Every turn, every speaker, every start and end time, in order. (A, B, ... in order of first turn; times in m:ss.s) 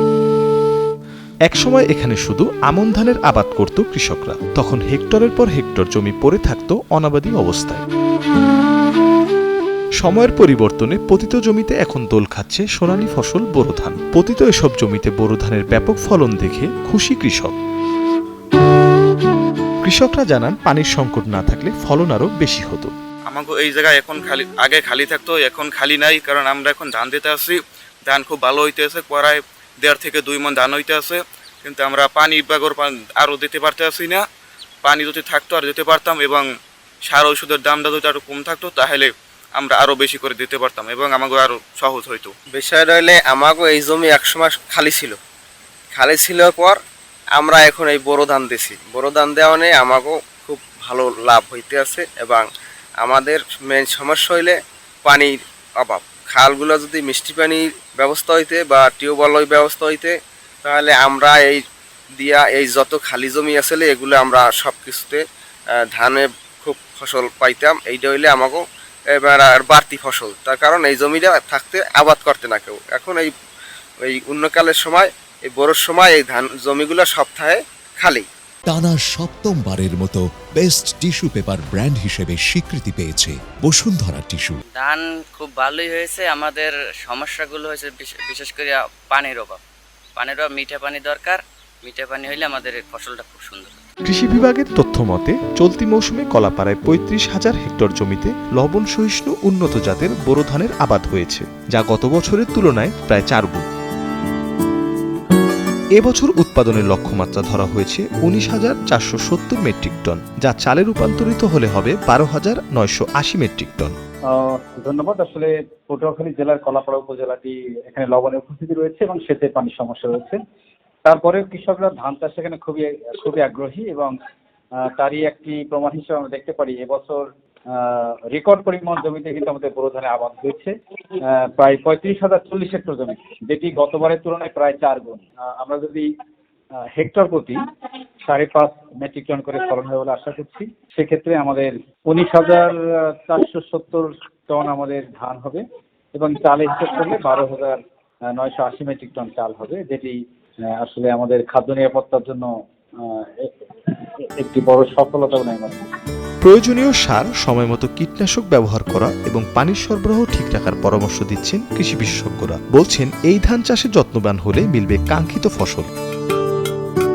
0:01.5-0:07.8 A
0:10.0-0:17.5 A
0:19.8-0:22.9 A
0:23.3-0:34.2 B
0:34.8-0:36.4 B
0:37.1-0:42.3 B
0:42.5-0:45.2 C
0:45.9-0:46.8 C
0:47.4-0:52.5 C
0:53.0-1:01.6 C
1:02.2-1:05.2 C
1:05.8-1:13.3 C
1:14.0-1:18.3 C
1:18.7-1:24.6 D
1:24.8-1:29.6 E
1:30.2-1:33.8 E
1:34.1-1:43.7 A
1:46.0-1:54.0 A
1:54.3-2:00.4 F
2:01.0-2:04.1 F
2:04.9-2:10.7 F
2:11.3-2:16.1 F
2:16.9-2:17.6 F
2:18.3-2:25.6 F
2:26.2-2:27.8 F
2:28.3-2:30.2 F
2:30.8-2:32.5 F
2:33.2-2:33.5 F
2:34.4-2:35.8 F
2:36.4-2:45.9 A